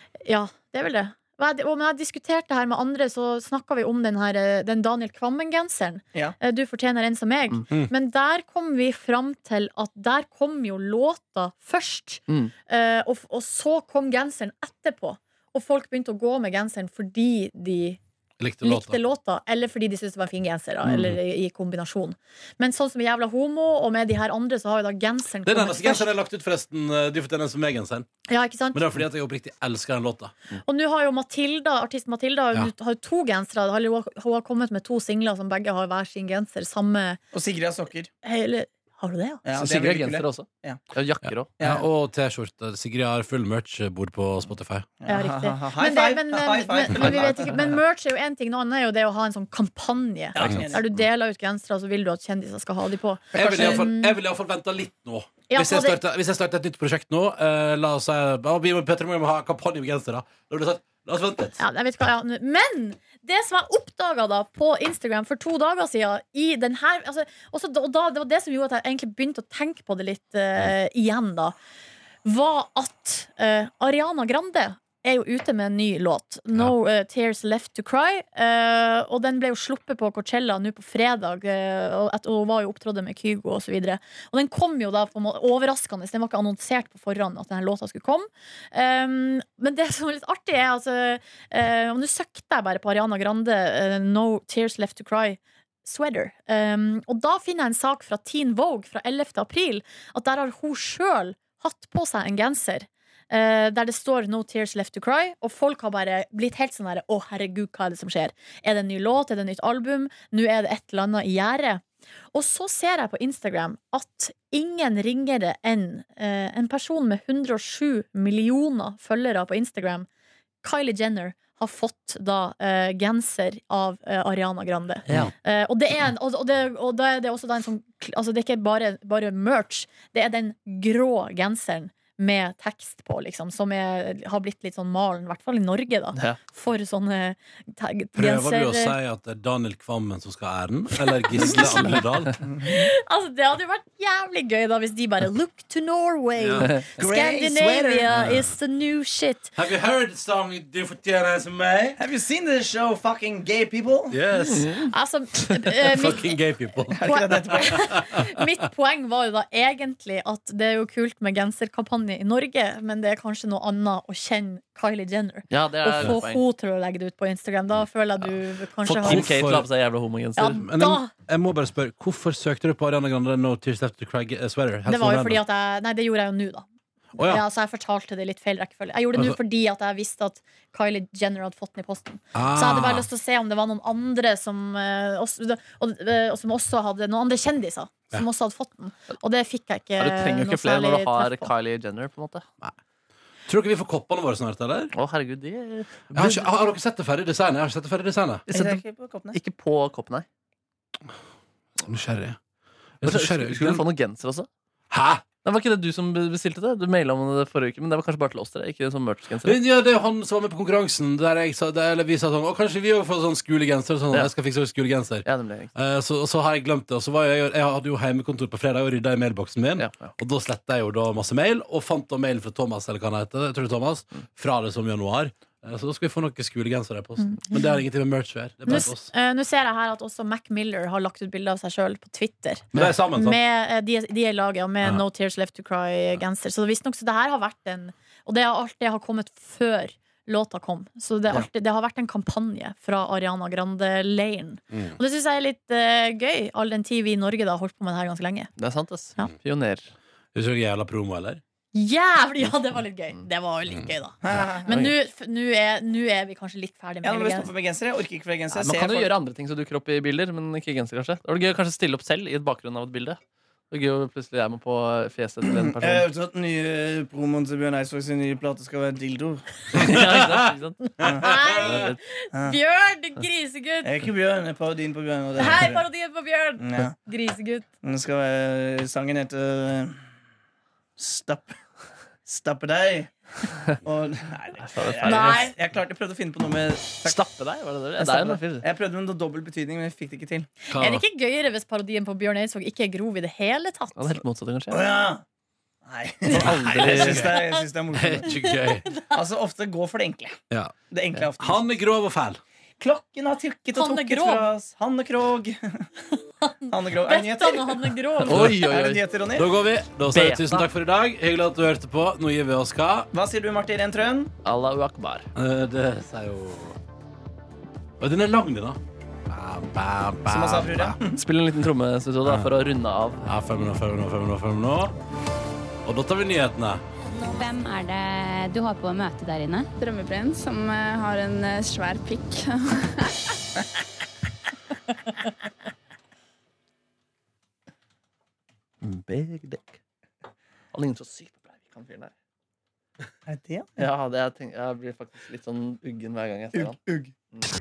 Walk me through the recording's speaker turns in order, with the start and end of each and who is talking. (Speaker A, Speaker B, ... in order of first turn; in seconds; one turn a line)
Speaker A: 0.2-18.0
Speaker B: 18.4-19.0
Speaker A: 18.6-26.1
Speaker B: 25.4-28.1
Speaker A: 28.3-28.9
Speaker B: 28.7-30.3
Speaker A: 30.6-37.2
Speaker C: 37.3-38.1
Speaker A: 38.2-39.4
Speaker C: 39.4-40.8
Speaker D: 39.6-41.5
Speaker B: 41.3-44.9
Speaker C: 41.6-41.9
Speaker C: 45.0-47.8
Speaker A: 45.1-54.2
Speaker C: 50.3-50.9
Speaker C: 53.4-53.9
Speaker B: 53.4-61.6
Speaker A: 55.5-56.0
Speaker A: 61.6-71.5
Speaker A: 72.2-120.1
Speaker A: 120.6-139.0
Speaker B: 138.2-142.4
Speaker A: 141.3-142.0
Speaker C: 142.4-142.9
Speaker A: 142.6-149.5
Speaker B: 146.4-146.7
Speaker D: 146.6-146.9
Speaker C: 147.0-148.1
Speaker B: 148.1-148.5
Speaker B: 149.6-152.0
Speaker C: 152.0-154.2
Speaker B: 154.1-154.8
Speaker D: 154.4-154.9
Speaker A: 154.9-156.4
Speaker B: 155.8-158.3
Speaker C: 156.9-157.9
Speaker A: 157.0-169.3
Speaker D: 165.5-166.4
Speaker B: 168.9-169.7
Speaker D: 168.9-170.6
Speaker A: 170.4-171.1
Speaker B: 170.5-175.4
Speaker A: 174.9-191.5
Speaker B: 177.2-177.4
Speaker B: 182.3-183.1
Speaker D: 190.0-192.5
Speaker B: 193.5-194.9
Speaker D: 194.9-196.5
Speaker B: 196.1-198.5
Speaker C: 198.5-199.4
Speaker D: 198.5-198.8
Speaker D: 199.3-200.3
Speaker B: 201.8-202.4
Speaker B: 203.0-203.8
Speaker D: 203.0-204.5
Speaker B: 204.9-205.3
Speaker D: 205.4-209.6
Speaker B: 209.4-229.1
Speaker D: 215.2-215.7
Speaker D: 219.8-220.1
Speaker A: 228.7-248.5
Speaker B: 232.7-233.4
Speaker D: 248.6-249.9
Speaker B: 250.3-251.4
Speaker A: 251.7-257.5
Speaker C: 254.2-254.8
Speaker B: 254.3-254.9
Speaker C: 257.0-259.1
Speaker D: 258.5-263.2
Speaker D: 263.7-266.1
Speaker C: 265.4-270.0
Speaker D: 269.7-270.9
Speaker B: 269.8-270.5
Speaker A: 270.9-273.9
Speaker C: 271.0-271.6
Speaker B: 271.2-271.8
Speaker D: 271.6-272.0
Speaker C: 273.8-275.8
Speaker A: 275.4-277.7
Speaker C: 276.6-277.0
Speaker C: 277.8-280.0
Speaker C: 281.0-281.6
Speaker C: 282.3-283.1
Speaker C: 283.7-287.2
Speaker D: 284.6-285.5
Speaker A: 285.0-285.5
Speaker D: 287.0-288.6
Speaker C: 288.0-290.5
Speaker B: 290.7-291.0
Speaker A: 290.7-294.2
Speaker D: 294.0-294.9
Speaker C: 294.7-295.2
Speaker C: 295.9-298.3
Speaker D: 296.3-297.4
Speaker B: 296.4-298.9
Speaker A: 297.3-297.6
Speaker A: 298.2-299.1
Speaker C: 299.1-300.4
Speaker C: 300.9-301.7
Speaker B: 301.4-302.4
Speaker C: 302.8-305.9
Speaker A: 303.7-304.5
Speaker A: 306.4-308.5
Speaker C: 306.7-309.5
Speaker D: 308.2-309.1
Speaker B: 308.3-308.7
Speaker B: 309.4-313.1
Speaker D: 310.1-310.7
Speaker C: 313.1-314.3
Speaker D: 314.4-315.3
Speaker B: 315.4-316.8
Speaker B: 318.0-321.0
Speaker C: 320.3-321.2
Speaker D: 321.1-323.3
Speaker B: 322.2-322.5
Speaker B: 323.2-324.9
Speaker B: 325.9-326.8
Speaker E: 327.2-329.7
Speaker F: 329.8-333.2
Speaker D: 338.8-339.6
Speaker D: 340.7-342.1
Speaker C: 343.3-343.8
Speaker D: 343.8-346.8
Speaker C: 346.5-347.1